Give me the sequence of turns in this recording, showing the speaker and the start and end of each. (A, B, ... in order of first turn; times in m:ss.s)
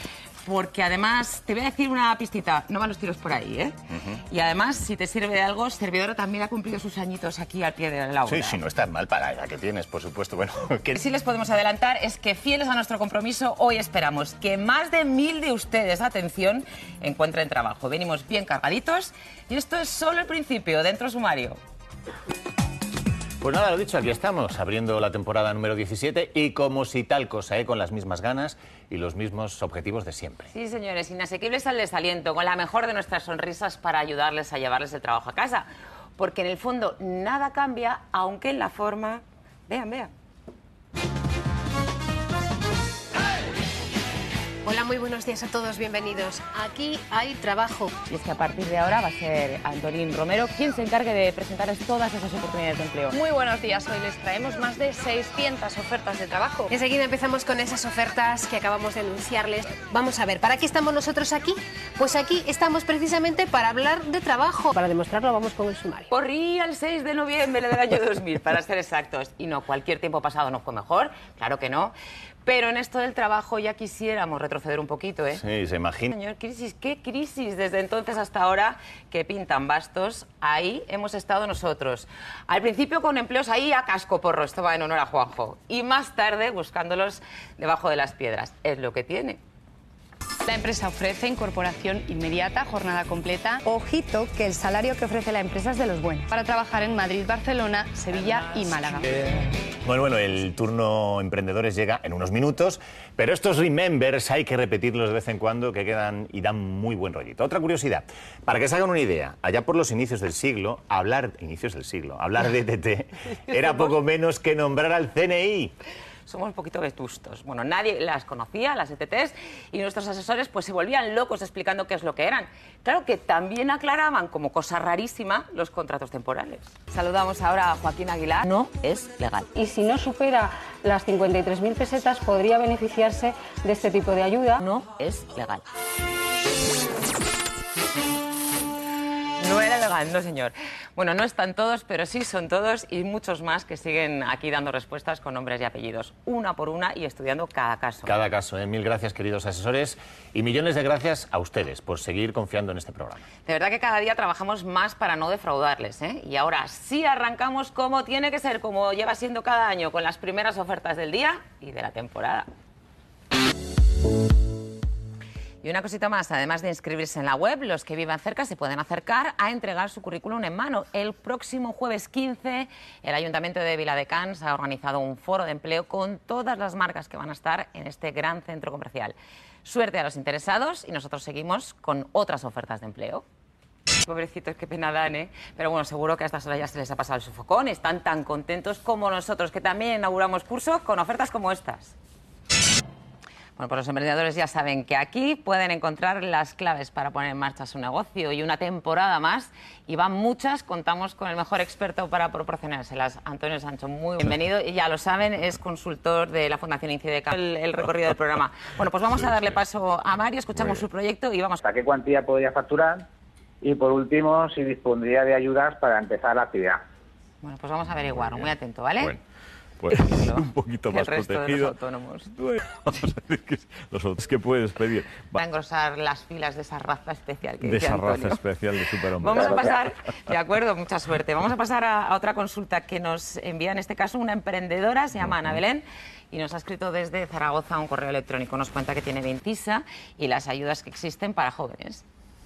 0:00.4-0:08.6 A
0:08.3-0:11.0 B
0:11.0-0:21.6 A
0:23.4-0:30.5 B
0:30.5-0:35.7 A
0:36.2-0:40.1 A
0:44.6-0:47.9 C
0:48.1-0:53.2 A
0:53.1-0:56.7 D
0:56.7-1:06.1 C
1:06.1-1:11.9 A
1:12.4-1:15.4 A
1:15.3-1:16.1 B
1:16.1-1:29.4 A
1:30.4-1:33.6 E
1:33.6-1:36.3 F
1:36.3-1:39.3 E
1:39.8-1:55.7 B
1:56.3-2:09.6 A
2:09.6-2:14.6 G
2:14.6-2:15.6 A
2:19.4-2:28.1 A
2:28.1-2:33.2 B
2:33.4-2:42.5 A
2:45.6-3:03.2 A
3:04.0-3:11.9 A
3:13.6-3:31.6 A
3:30.6-3:30.8 H
3:31.6-3:33.1 I
3:33.6-3:36.8 I
3:37.4-3:39.1 A
3:37.9-3:39.2 H
3:39.8-3:41.8 H
3:39.9-3:42.3 A
3:42.3-3:45.4 H
3:45.4-3:48.4 A
3:47.6-3:49.8 H
3:49.2-4:02.0 A
3:55.2-3:55.6 H